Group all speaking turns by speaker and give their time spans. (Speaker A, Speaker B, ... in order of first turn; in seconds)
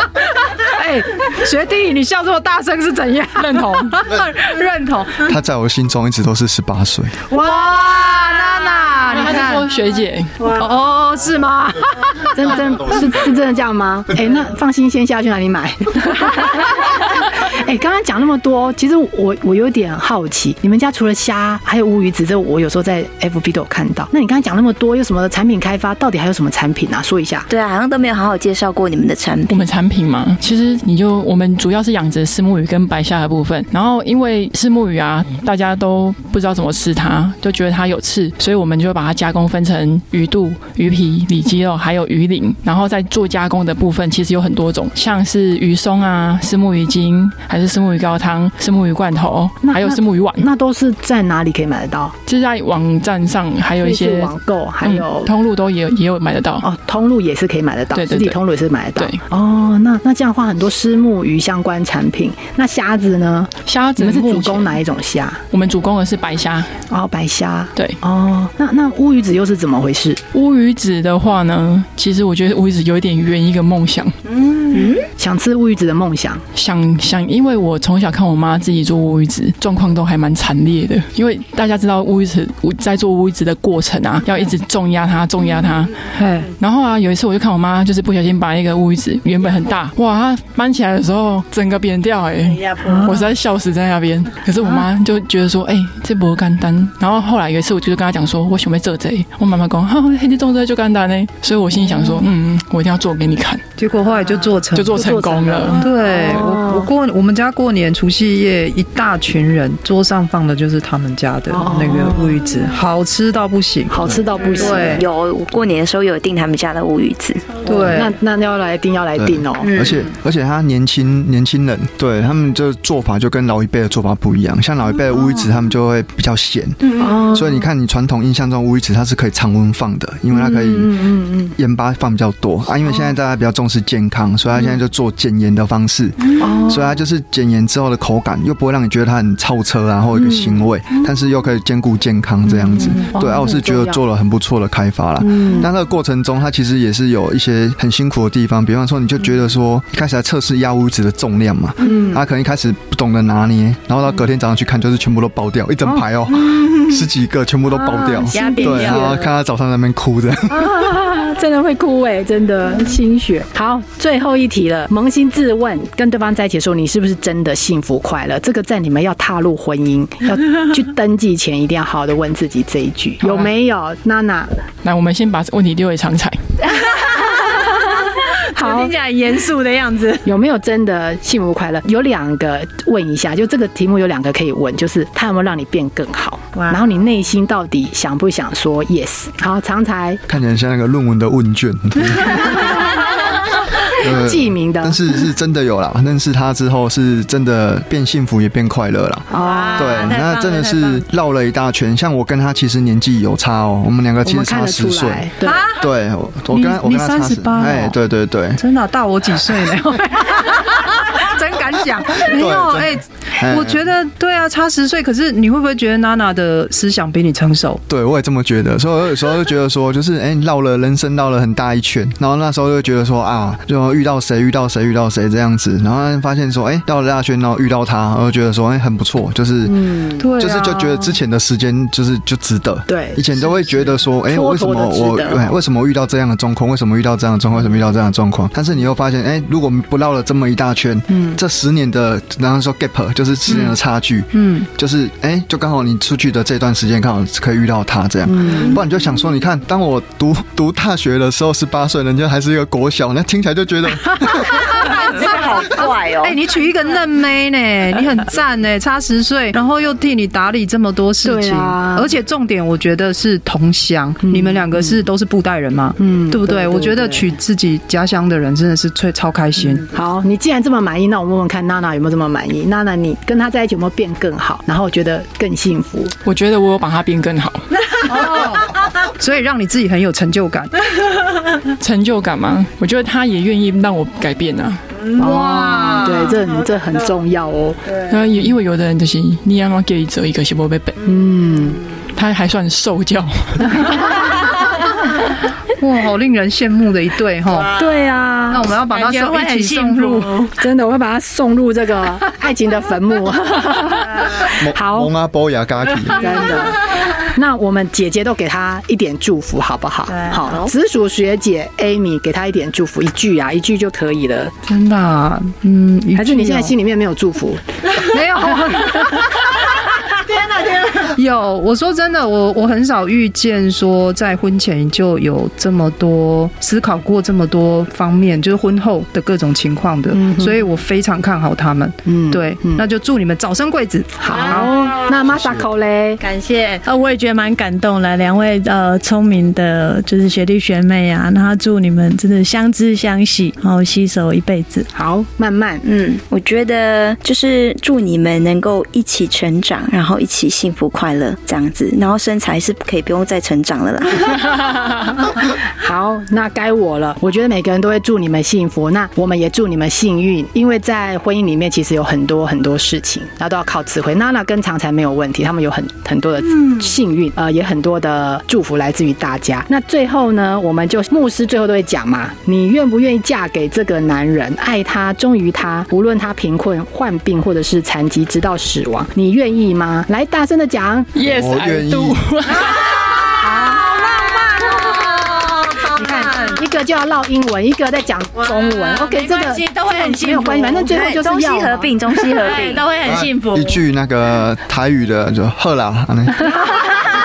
Speaker A: 0.6-5.3, 7.3-9.7, 10.4-12.3, 86.2-86.5, 92.9-93.2, 103.8-105.1, 105.8-114.0, 114.6-115.0, 117.7-118.2, 205.4-205.9, 206.5-208.0, 208.6-217.8, 230.2-231.1, 244.3-244.7, 254.7-269.9, 278.1-280.7, 285.2-286.4, 295.8-297.8, 298.5-300.5, 314.7-316.7, 318.0-319.3, 320.9-334.7
Speaker B: 3.4-4.0, 9.1-10.4, 29.5-50.5, 52.3-54.3, 54.8-56.7, 57.9-58.4, 63.7-64.8, 65.5-66.7, 70.3-74.2, 76.5-86.0, 86.6-103.6, 104.7-105.8, 174.8-176.4, 276.2-277.8, 281.8-284.8, 288.1-291.0, 292.1-293.9, 381.1-383.3
Speaker C: 5.2-7.3, 119.2-130.9, 131.6-160.8, 190.3-192.9, 193.9-208.6, 212.3-213.9, 217.9-254.8, 304.4-306.5, 335.3-335.7, 381.2-382.2, 393.1-396.5
Speaker D: 12.3-27.5, 49.6-52.1, 53.8-55.3, 56.6-65.4, 66.9-70.2, 75.2-76.4, 105.0-106.9, 111.5-112.4, 113.9-115.1, 117.7-119.9, 127.0-127.7, 130.3-131.6, 136.4-137.0, 140.2-140.7, 142.5-144.0, 145.4-145.7, 151.8-152.2, 158.3-159.1, 160.5-174.5, 178.6-178.9, 180.2-190.2, 194.0-195.0, 199.3-200.1, 204.2-205.7, 229.7-230.3, 232.9-235.5, 241.1-241.4, 243.5-243.8, 248.3-248.8, 261.2-262.1, 264.3-265.0, 266.0-267.3, 269.6-276.1, 285.2-287.9, 291.0-291.8, 297.7-298.7, 300.6-305.1, 306.1-314.5, 316.2-318.0, 318.6-319.1, 330.1-330.6, 332.1-332.9, 334.2-336.2, 344.9-345.8, 355.8-381.1, 383.4-384.2, 385.9-391.9, 396.5-397.0
Speaker E: 27.5-29.5, 114.6-117.6, 254.8-256.4, 345.8-354.5, 390.9-392.9
Speaker F: 74.4-74.9, 92.6-93.1, 158.3-159.3, 176.7-180.3, 199.3-201.0, 298.9-300.5, 334.6-335.1, 336.2-344.9, 383.6-386.6, 388.4-391.0, 392.3-393.8